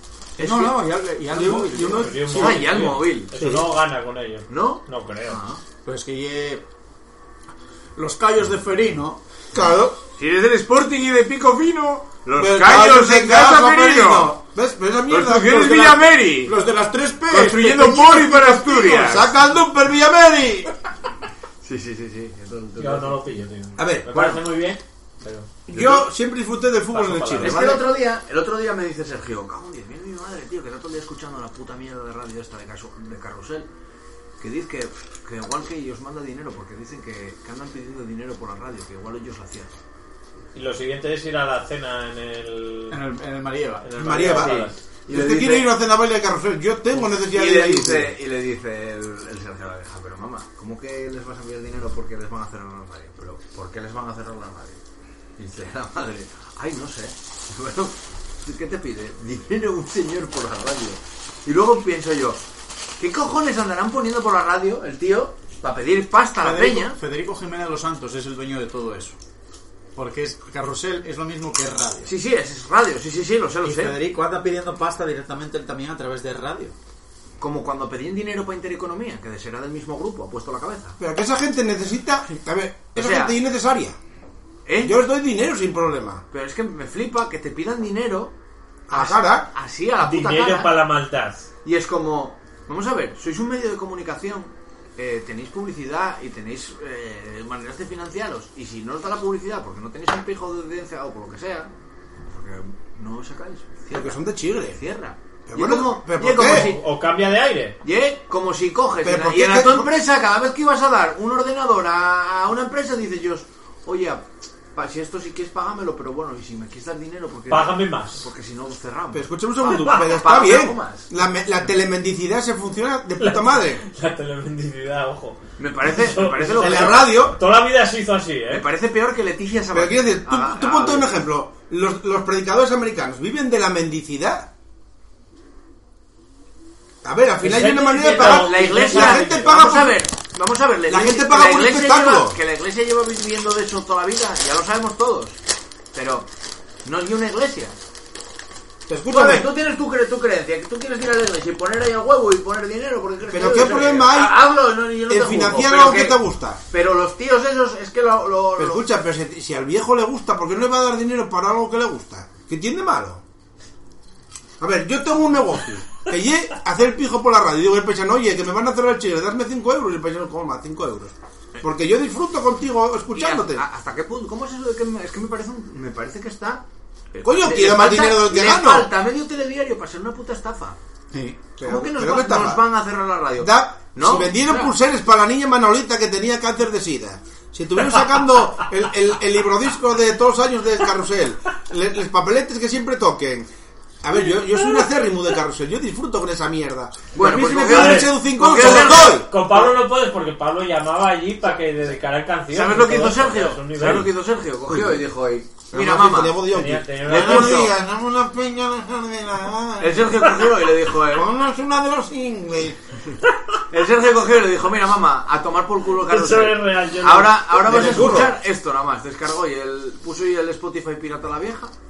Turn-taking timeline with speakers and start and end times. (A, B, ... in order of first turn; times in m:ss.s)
0:00.4-0:00.7 A
0:00.4-0:02.9 B
0:01.3-0:02.7 C
0:01.9-0:05.4 D
0:02.3-0:03.3 A
0:03.4-0:03.6 C
0:04.5-0:05.6 A
0:05.8-0:06.6 B
0:08.0-0:09.2 B
0:09.5-0:10.0 C
0:10.2-0:14.3 A
0:12.4-0:16.0 C
0:15.1-0:16.5 A
0:16.4-0:18.9 B
0:17.3-0:19.3 A
0:18.8-0:20.7 C
0:21.6-0:23.2 A
0:22.8-0:25.5 D
0:23.8-0:24.3 C
0:24.1-0:24.4 A
0:25.7-0:27.9 C
0:25.7-0:26.1 A
0:26.9-0:27.7 D
0:27.4-0:33.7 A
0:34.4-0:39.7 A
0:40.5-0:43.0 D
0:42.9-0:44.4 B
0:43.8-0:44.8 D
0:44.0-0:48.1 C
0:44.3-0:45.8 A
0:47.1-0:54.8 A
0:55.4-1:02.4 A
1:03.0-1:07.0 A
1:06.4-1:09.2 B
1:10.0-1:12.1 B
1:12.0-1:14.0 A
1:13.6-1:16.8 B
1:17.4-1:21.0 A
1:21.0-1:24.0 C
1:23.0-1:23.4 A
1:24.7-1:25.0 A
1:24.8-1:26.2 C
1:26.3-1:28.3 A
1:28.9-1:29.5 C
1:28.9-1:30.8 A
1:30.0-1:31.5 D
1:31.6-1:41.7 A
1:42.3-1:46.8 A
1:43.9-1:44.8 C
1:45.5-1:46.7 C
1:46.4-1:47.8 D
1:47.8-2:01.1 A
1:49.0-1:49.9 C
1:57.5-1:58.3 D
1:59.1-2:03.8 C
2:03.2-2:08.6 D
2:05.6-2:07.1 A
2:06.5-2:07.4 C
2:08.5-2:11.1 A
2:09.7-2:14.5 C
2:17.0-2:20.0 C
2:17.4-2:19.5 D
2:18.1-2:25.4 A
2:20.9-2:22.4 C
2:25.9-2:26.3 A
2:26.8-2:27.8 A
2:28.9-2:29.5 C
2:29.1-2:36.2 A
2:33.3-2:34.4 C
2:35.1-2:36.6 C
2:36.7-2:38.8 A
2:38.6-2:43.2 C
2:44.6-2:53.6 C
2:53.2-2:56.6 A
2:57.1-3:00.8 A
2:57.2-2:58.9 C
3:01.1-3:01.4 B
3:01.6-3:02.6 C
3:01.6-3:04.7 A
3:03.4-3:13.5 C
3:14.0-3:19.3 C
3:17.1-3:19.7 A
3:17.7-3:24.1 D
3:22.5-3:26.4 A
3:24.7-3:25.0 C
3:25.7-3:30.0 C
3:26.5-3:27.6 D
3:27.0-3:27.8 A
3:29.8-3:31.3 A
3:31.6-3:32.5 C
3:33.7-3:41.7 A
3:36.1-3:37.5 D
3:37.6-3:38.4 C